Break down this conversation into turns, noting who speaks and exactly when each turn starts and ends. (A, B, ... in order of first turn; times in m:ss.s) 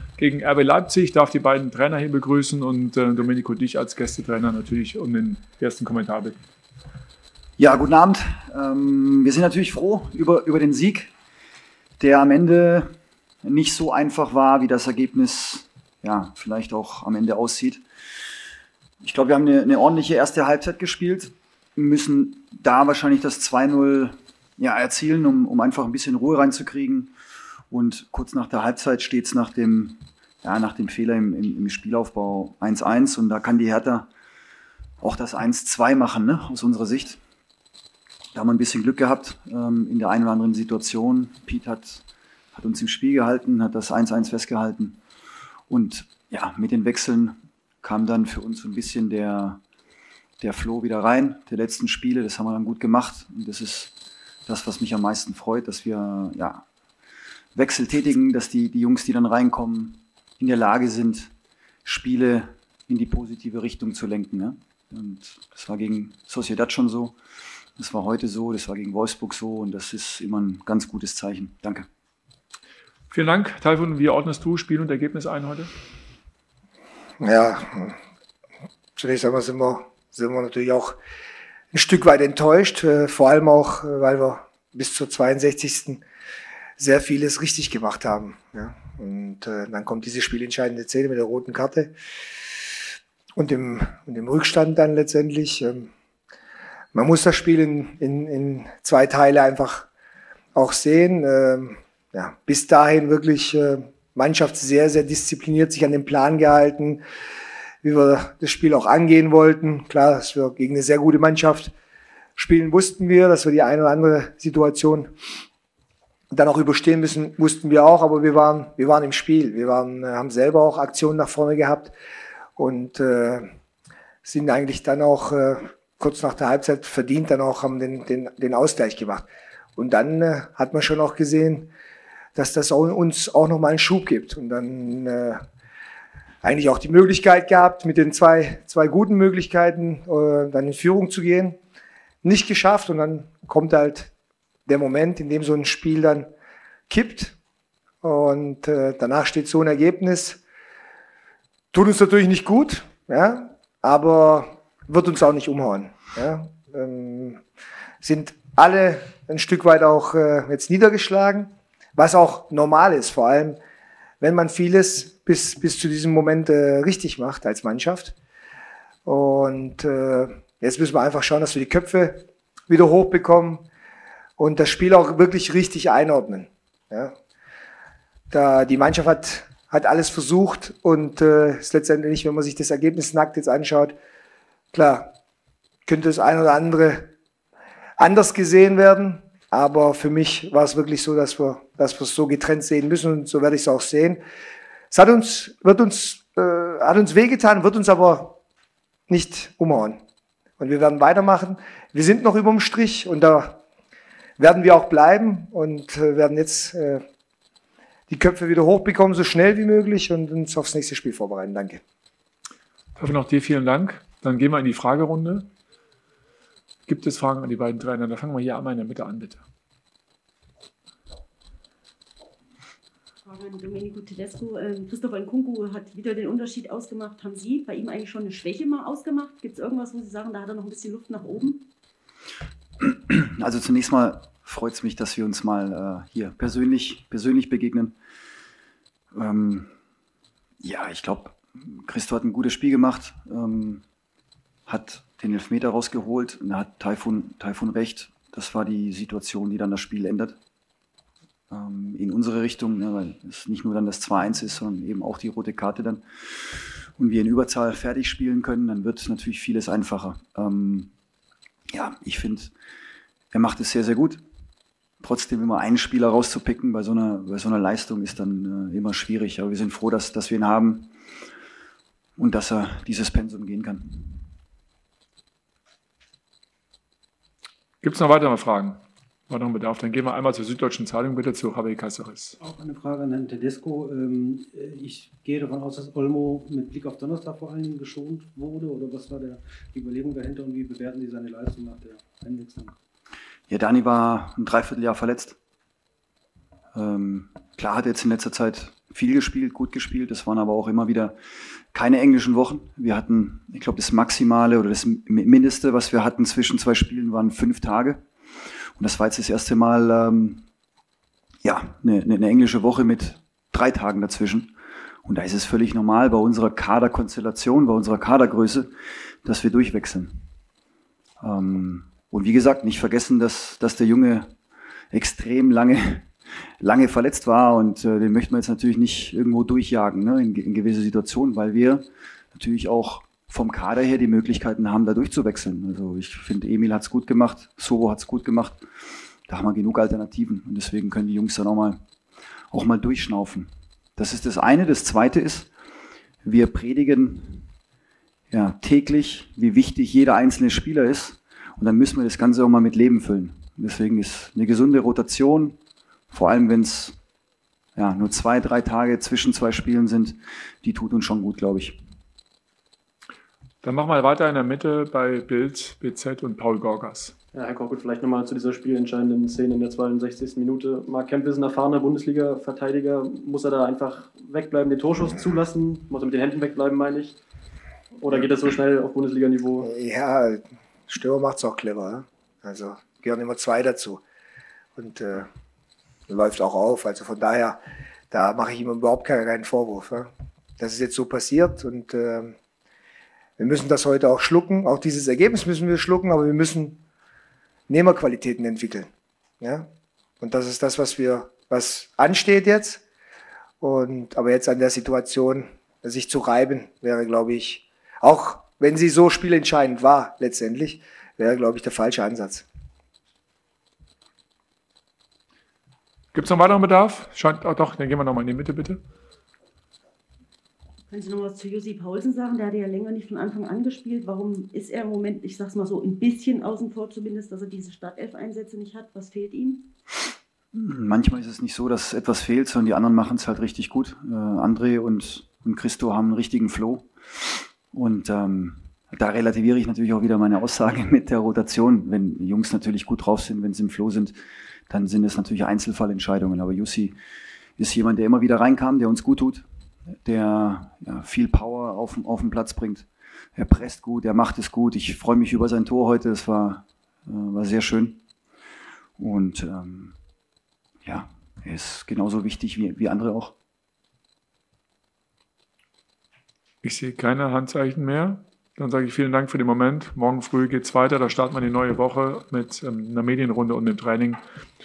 0:00.2-0:06.4 A
0:07.6-0:11.1 B
0:12.0-0:12.9 B
0:13.4-0:17.8 B
0:19.0-0:27.1 B
0:27.7-0:34.1 B
0:35.0-0:37.2 B
0:38.3-0:45.0 B
0:45.7-0:49.6 B
0:50.4-0:53.9 B
0:54.5-0:56.6 B
0:57.6-1:01.3 B
1:01.8-1:07.2 B
1:07.8-1:11.9 B
1:13.1-1:15.7 A
1:17.2-1:18.0 C
1:19.0-1:21.0 C
1:21.7-1:26.0 C
1:26.8-1:31.9 C
1:33.4-1:35.9 C
1:36.9-1:39.9 C
1:40.6-1:47.0 C
1:47.8-1:51.7 C
1:52.4-1:55.1 C
1:56.3-2:01.9 C
2:02.6-2:03.5 C
2:04.2-2:11.7 C
2:12.4-2:15.4 C
2:16.4-2:21.6 C
2:22.2-2:24.1 C
2:24.7-2:26.3 C
2:26.9-2:27.4 C
2:28.0-2:30.4 C
2:31.7-2:37.4 C
2:38.0-2:43.6 C
2:44.2-2:48.2 C
2:49.0-2:53.6 C
2:54.4-2:57.1 C
2:58.3-3:04.0 C
3:04.7-3:05.1 C
3:05.9-3:07.1 C
3:08.0-3:14.2 C
3:14.9-3:18.4 C
3:19.1-3:20.0 C
3:20.6-3:23.6 C
3:24.4-3:27.0 C
3:28.1-3:31.8 C
3:33.0-3:35.5 A
3:36.9-3:39.4 A
3:50.2-3:51.5 D
3:52.8-3:58.0 B
3:59.1-3:59.7 B
4:00.6-4:03.8 B
4:04.7-4:10.4 B
4:11.5-4:20.9 B
4:21.7-4:22.5 B
4:23.3-4:24.2 B
4:25.0-4:30.9 B
4:32.2-4:34.3 B
4:37.8-4:42.4 A
4:42.4-4:52.8 E
4:53.5-4:55.4 B
4:56.8-5:08.0 B
5:08.8-5:10.4 B
5:11.4-5:14.5 B
5:15.0-5:18.7 B
5:19.2-5:20.3 B
5:21.2-5:24.3 B
5:24.9-5:26.1 B
5:26.6-5:38.6 B
5:39.3-5:41.8 B
5:42.5-5:45.5 B
5:46.2-5:47.5 B
5:48.3-5:55.6 B
5:56.1-5:57.0 B
5:57.8-6:01.8 B
6:03.6-6:07.2 A
6:07.3-6:17.2 F
6:18.0-6:19.7 F
6:19.6-6:24.0 C
6:24.8-6:25.3 C
6:26.1-6:27.6 C
6:28.1-6:32.4 C
6:33.4-6:36.8 C
6:37.7-6:38.9 C
6:39.4-6:39.7 C
6:40.2-6:42.8 C
6:43.6-6:52.5 C
6:56.1-6:58.8 A
7:08.6-7:09.5 D
7:10.5-7:24.2 B
7:24.7-7:27.0 B
7:27.6-7:29.5 B
7:30.0-7:38.0 B
7:39.0-7:40.0 B
7:40.8-7:43.3 B
7:46.6-7:54.2 A